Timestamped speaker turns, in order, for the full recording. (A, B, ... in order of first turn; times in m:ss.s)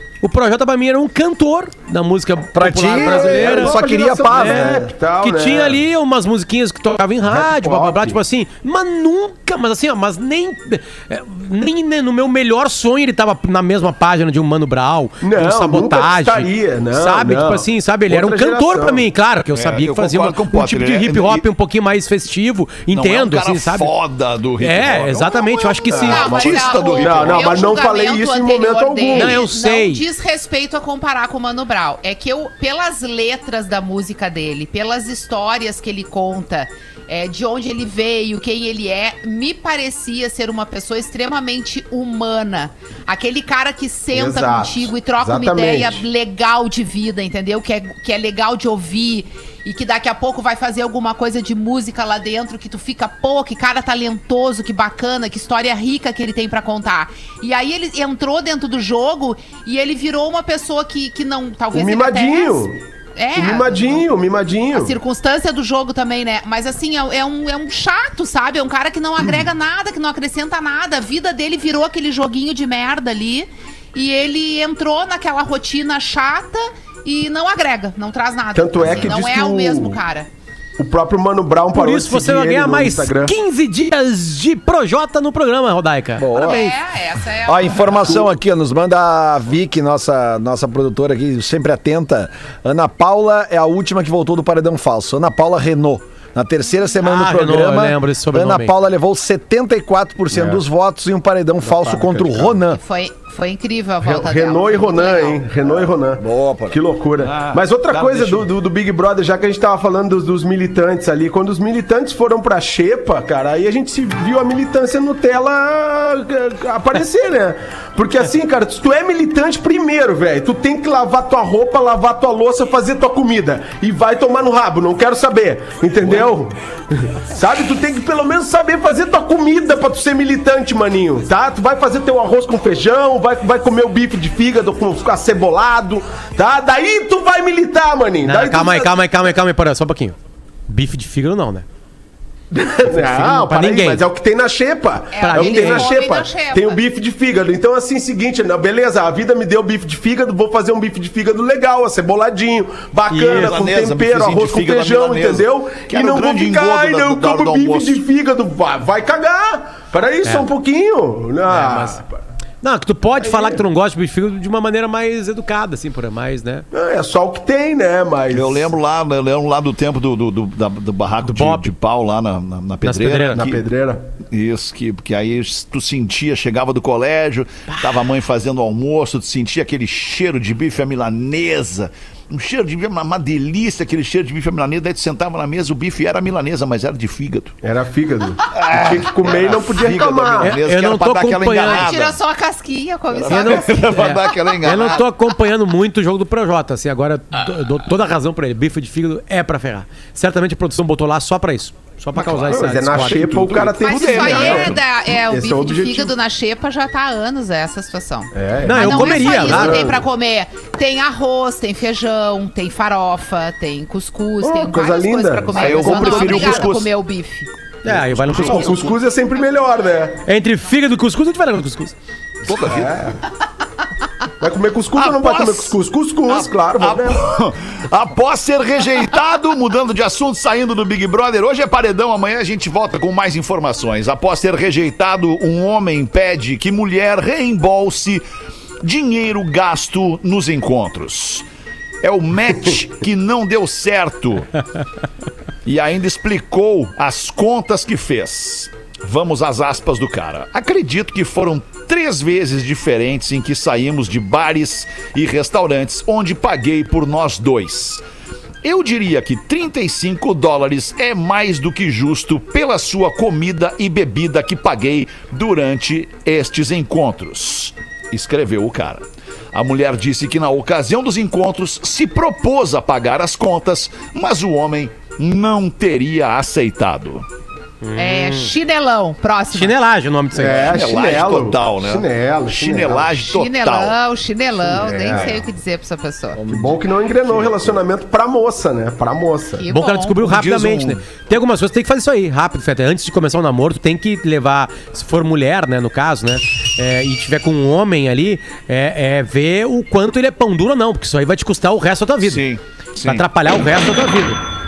0:00.2-0:04.7 A
0:02.5-0:04.9 B
0:02.9-0:05.8 C
0:05.2-0:23.9 A
0:07.2-0:08.2 C
0:15.2-0:19.1 C
0:19.5-0:21.4 D
0:22.9-0:27.8 D
0:24.6-0:26.3 A
0:25.9-1:02.6 E
0:25.9-0:29.4 C
0:29.1-0:30.0 A
0:44.1-0:46.0 C
1:01.7-1:02.8 C
1:03.2-1:04.0 E
1:03.3-1:04.9 C
1:04.7-1:20.3 E
1:18.5-1:20.0 C
1:18.8-1:19.1 D
1:20.8-1:23.3 C
1:21.7-1:26.7 A
1:26.2-1:26.7 B
1:26.3-1:28.2 E
1:27.4-1:42.8 B
1:37.0-1:38.7 A
1:40.3-1:40.6 C
1:41.6-1:42.6 C
1:42.7-1:45.4 E
1:44.0-2:18.9 C
1:45.6-1:46.8 B
1:47.2-1:48.5 D
2:18.2-2:20.1 A
2:20.7-2:21.6 A
2:22.5-2:42.1 C
2:22.9-2:24.0 A
2:25.1-2:26.8 E
2:25.2-2:25.9 A
2:33.1-2:33.5 A
2:33.3-2:38.0 D
2:41.5-2:42.0 A
2:42.6-2:46.6 A
2:43.2-2:43.6 C
2:46.7-2:48.7 C
2:48.3-2:53.6 D
2:51.2-2:51.7 A
2:52.8-2:53.4 A
2:53.4-2:54.0 C
2:54.3-3:07.5 D
3:07.6-3:10.6 C
3:08.6-3:12.2 D
3:10.4-3:11.9 A
3:11.7-3:14.0 E
3:13.1-3:15.1 D
3:13.3-3:23.5 A
3:22.2-3:26.1 C
3:23.1-3:24.8 D
3:23.8-3:37.5 E
3:28.3-3:30.0 C
3:28.6-3:30.0 A
3:34.4-3:36.7 C
3:35.5-3:36.9 D
3:37.8-3:38.7 A
3:37.9-3:39.0 D
3:38.3-3:40.2 C
3:40.2-3:42.0 A
3:42.4-3:43.1 D
3:42.6-3:43.2 C
3:44.4-3:47.2 C
3:44.9-3:45.7 D
3:46.2-3:58.2 D
3:58.8-4:01.4 D
4:02.0-4:04.6 D
4:05.6-4:18.0 D
4:18.6-4:37.2 D
4:37.8-4:38.5 A
4:38.0-4:39.7 E
4:39.5-4:40.7 A
4:40.4-4:43.1 C
4:40.5-4:44.0 D
4:43.2-4:46.4 E
4:44.6-4:45.3 C
4:46.4-4:47.8 B
4:46.5-4:49.6 C
4:49.6-4:50.2 E
4:49.7-5:02.4 A
4:50.2-4:51.0 D
5:02.2-5:03.2 D
5:03.0-5:04.4 A